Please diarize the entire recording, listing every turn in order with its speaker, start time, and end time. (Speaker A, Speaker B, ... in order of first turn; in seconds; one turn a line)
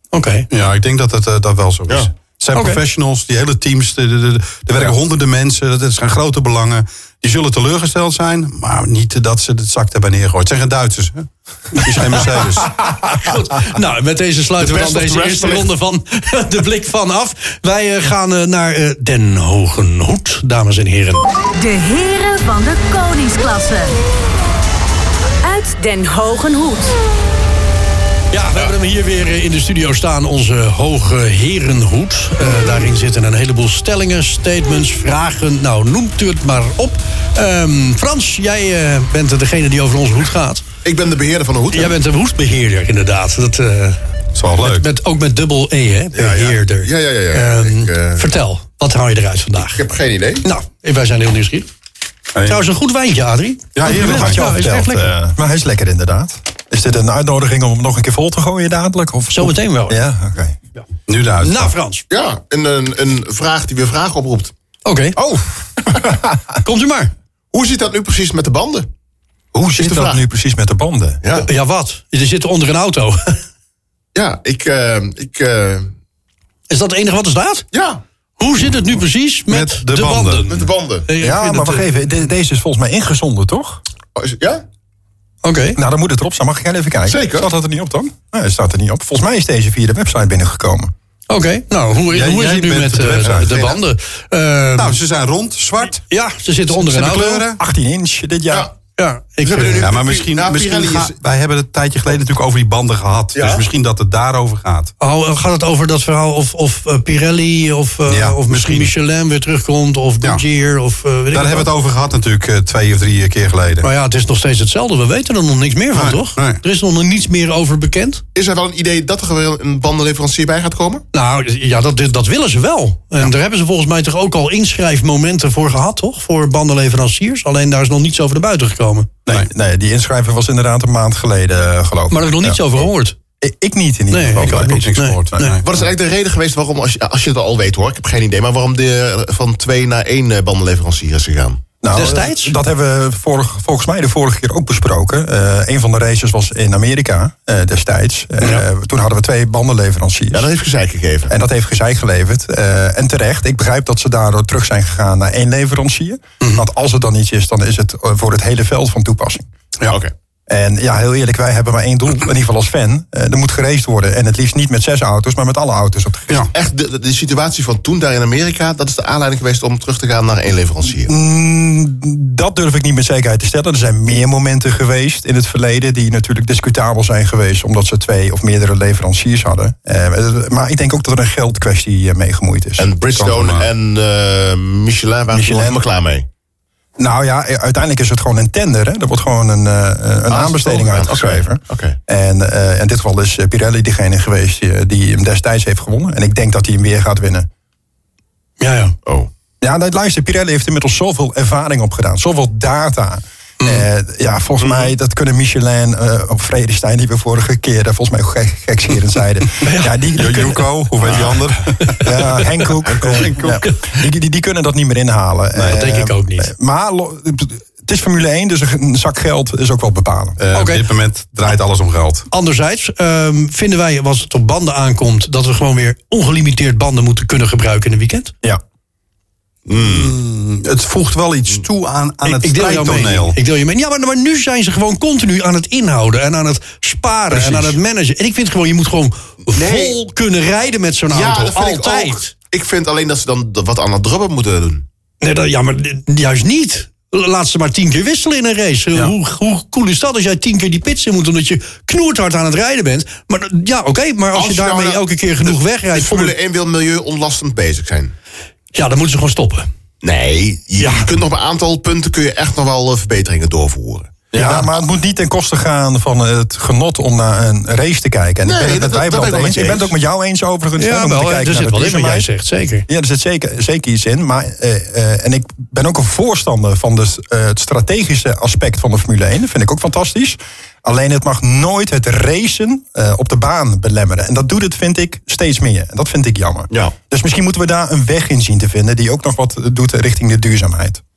Speaker A: 0.1-0.5
Speaker B: 0.5-12.8
Speaker A: 2.5-2.8
Speaker A: 13.1-21.2
Speaker C: 14.6-15.7
Speaker D: 21.5-23.9
Speaker D: 25.4-26.9
Speaker A: 28.3-40.6
Speaker C: 40.8-42.0
Speaker A: 41.7-44.0
Speaker B: 44.3-44.9
Speaker A: 44.6-49.8
Speaker C: 46.1-48.3
Speaker C: 49.6-50.5
Speaker A: 50.4-51.7
Speaker B: 52.3-52.7
Speaker A: 52.4-55.1
Speaker B: 53.7-55.1
Speaker E: 53.8-60.6
Speaker A: 59.3-60.0
Speaker B: 61.1-61.7
Speaker A: 61.4-62.0
Speaker C: 62.1-64.5
Speaker A: 64.8-65.2
Speaker E: 65.2-66.6
Speaker A: 66.6-67.1
Speaker C: 67.5-68.9
Speaker E: 69.5-71.2
Speaker C: 69.8-70.2
Speaker C: 71.2-71.5
Speaker A: 71.3-73.4
Speaker C: 74.1-75.9
Speaker A: 76.7-77.7
Speaker C: 77.7-78.0
Speaker A: 78.4-81.9
Speaker B: 79.5-80.5
Speaker C: 80.5-81.1
Speaker E: 81.2-83.8
Speaker C: 84.2-84.6
Speaker A: 85.4-85.8
Speaker E: 85.8-90.9
Speaker C: 87.1-87.5
Speaker A: 91.3-95.0
Speaker B: 92.1-93.8
Speaker B: 94.8-96.0
Speaker A: 96.1-97.5
Speaker B: 96.7-97.6
Speaker E: 97.5-98.7
Speaker A: 99.0-99.9
Speaker C: 99.4-101.1
Speaker B: 99.8-104.9
Speaker C: 103.3-103.6
Speaker A: 105.0-111.7
Speaker B: 108.1-108.9
Speaker B: 111.3-113.9
Speaker A: 113.8-118.2
Speaker B: 115.9-116.6
Speaker C: 118.3-121.0
Speaker A: 121.1-129.1
Speaker E: 129.2-132.6
Speaker A: 132.1-133.2
Speaker E: 133.4-135.5
Speaker A: 134.1-135.6
Speaker B: 134.4-135.7
Speaker C: 135.6-141.6
Speaker E: 141.8-150.5
Speaker A: 141.9-142.6
Speaker C: 150.3-151.3
Speaker E: 151.3-159.5
Speaker E: 160.5-166.5
Speaker C: 166.5-171.1
Speaker E: 171.1-182.9
Speaker C: 182.8-186.3
Speaker B: 183.1-183.7
Speaker E: 185.3-185.8
Speaker E: 187.0-197.5
Speaker C: 190.3-192.0
Speaker A: 198.6-198.9
Speaker E: 199.6-210.6
Speaker A: 203.6-203.8
Speaker C: 204.6-204.9
Speaker A: 209.6-210.3
Speaker B: 210.1-212.3
Speaker C: 211.0-211.4
Speaker A: 211.8-212.7
Speaker E: 212.0-220.4
Speaker B: 212.8-213.6
Speaker C: 212.9-213.2
Speaker A: 215.6-216.5
Speaker B: 220.4-222.3
Speaker A: 220.5-220.8
Speaker A: 222.3-228.3
Speaker C: 229.7-230.1
Speaker B: 229.8-233.4
Speaker A: 232.2-242.3
Speaker B: 237.3-237.8
Speaker C: 239.5-240.0
Speaker C: 241.1-244.8
Speaker A: 245.2-256.3
Speaker C: 254.3-258.1
Speaker A: 258.7-259.7
Speaker C: 260.0-264.7
Speaker A: 260.8-261.1
Speaker E: 264.3-272.3
Speaker A: 264.4-264.6
Speaker C: 268.4-269.9
Speaker A: 270.8-272.9
Speaker E: 272.9-291.0